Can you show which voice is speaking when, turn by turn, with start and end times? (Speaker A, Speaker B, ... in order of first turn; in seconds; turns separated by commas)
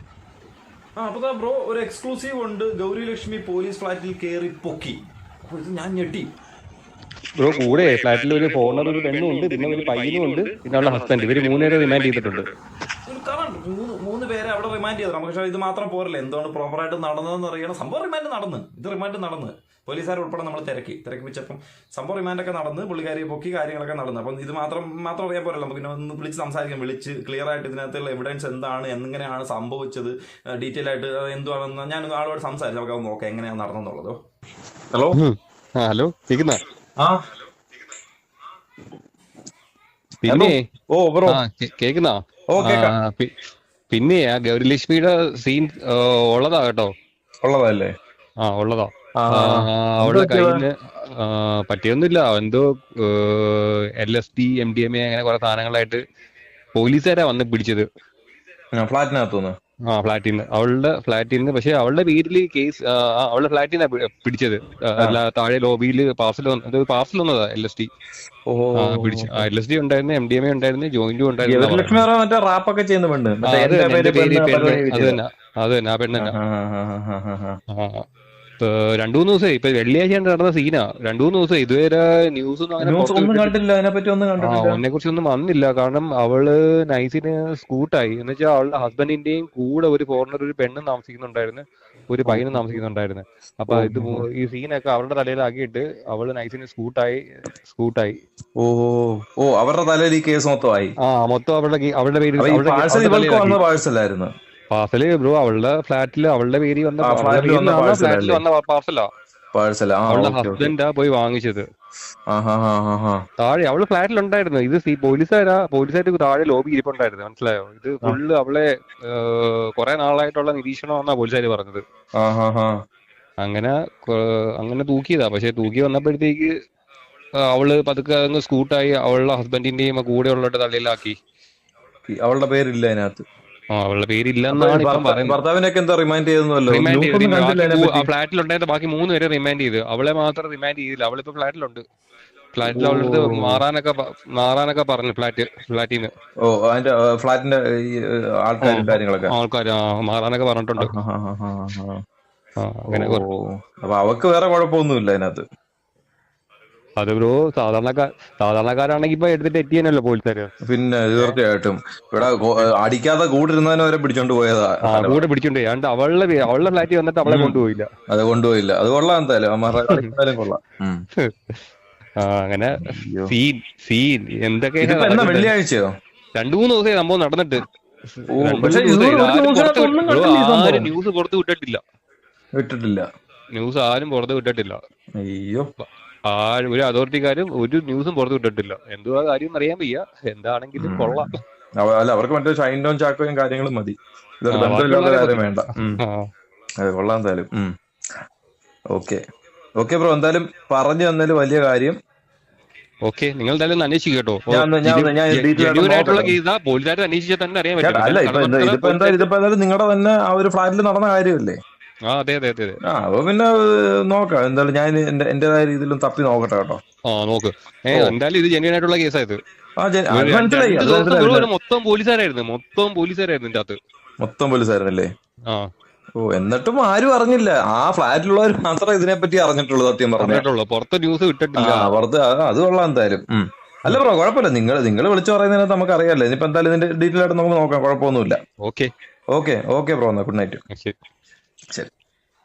Speaker A: 1.0-6.3, Speaker B: 7.4-12.5, Speaker A: 13.1-34.2, Speaker C: 34.9-35.2, Speaker B: 35.1-36.6, Speaker B: 40.2-40.6, Speaker C: 40.2-41.4, Speaker B: 41.3-43.3, Speaker C: 42.5-42.9, Speaker B: 43.9-46.9, Speaker C: 47.4-47.9, Speaker B: 48.4-56.0, Speaker C: 49.2-50.6, Speaker B: 56.8-57.9, Speaker C: 58.8-59.5, Speaker B: 59.9-67.9, Speaker C: 68.5-69.5, Speaker B: 68.8-72.0, Speaker C: 71.5-75.2, Speaker B: 73.4-76.3, Speaker C: 76.2-77.6, Speaker B: 77.7-78.0, Speaker B: 78.6-83.5, Speaker C: 82.8-84.8, Speaker B: 84.4-98.2, Speaker C: 92.2-92.8, Speaker C: 93.7-94.2, Speaker C: 98.6-100.9, Speaker B: 101.0-103.6, Speaker C: 102.4-104.3, Speaker B: 104.7-109.1, Speaker C: 107.0-108.4, Speaker C: 109.5-110.7, Speaker B: 110.1-111.6, Speaker C: 112.3-113.2, Speaker B: 113.4-121.8, Speaker C: 122.2-122.7, Speaker B: 123.4-126.5, Speaker B: 127.4-131.2, Speaker C: 132.1-133.2, Speaker B: 133.7-135.4, Speaker C: 134.5-138.1, Speaker B: 136.7-141.8, Speaker B: 142.5-146.1, Speaker C: 142.7-143.6, Speaker C: 146.4-149.3, Speaker B: 148.6-150.9, Speaker C: 150.8-152.0, Speaker B: 152.6-153.2, Speaker C: 152.9-155.4, Speaker B: 157.0-160.5, Speaker C: 160.6-165.2, Speaker B: 164.8-167.9, Speaker C: 167.2-171.0, Speaker B: 169.8-170.1, Speaker B: 172.2-175.5, Speaker C: 172.8-173.3, Speaker C: 174.8-175.8, Speaker B: 176.3-177.6, Speaker B: 178.2-181.8, Speaker C: 178.3-180.9, Speaker C: 182.6-183.1, Speaker B: 183.5-184.8, Speaker C: 185.2-185.7, Speaker B: 186.3-191.4, Speaker C: 190.8-196.0, Speaker B: 194.5-196.3, Speaker C: 196.8-197.7, Speaker C: 198.9-199.2, Speaker C: 199.8-202.0, Speaker B: 203.0-209.3, Speaker C: 204.5-206.4, Speaker C: 207.8-211.6, Speaker B: 212.1-212.8, Speaker C: 212.8-216.8, Speaker B: 217.1-219.4, Speaker C: 219.8-221.5, Speaker B: 220.1-223.8, Speaker C: 224.2-225.1, Speaker C: 226.2-230.4, Speaker B: 230.2-232.0, Speaker C: 231.6-238.4, Speaker B: 238.6-238.9, Speaker C: 239.3-240.6, Speaker B: 240.7-240.9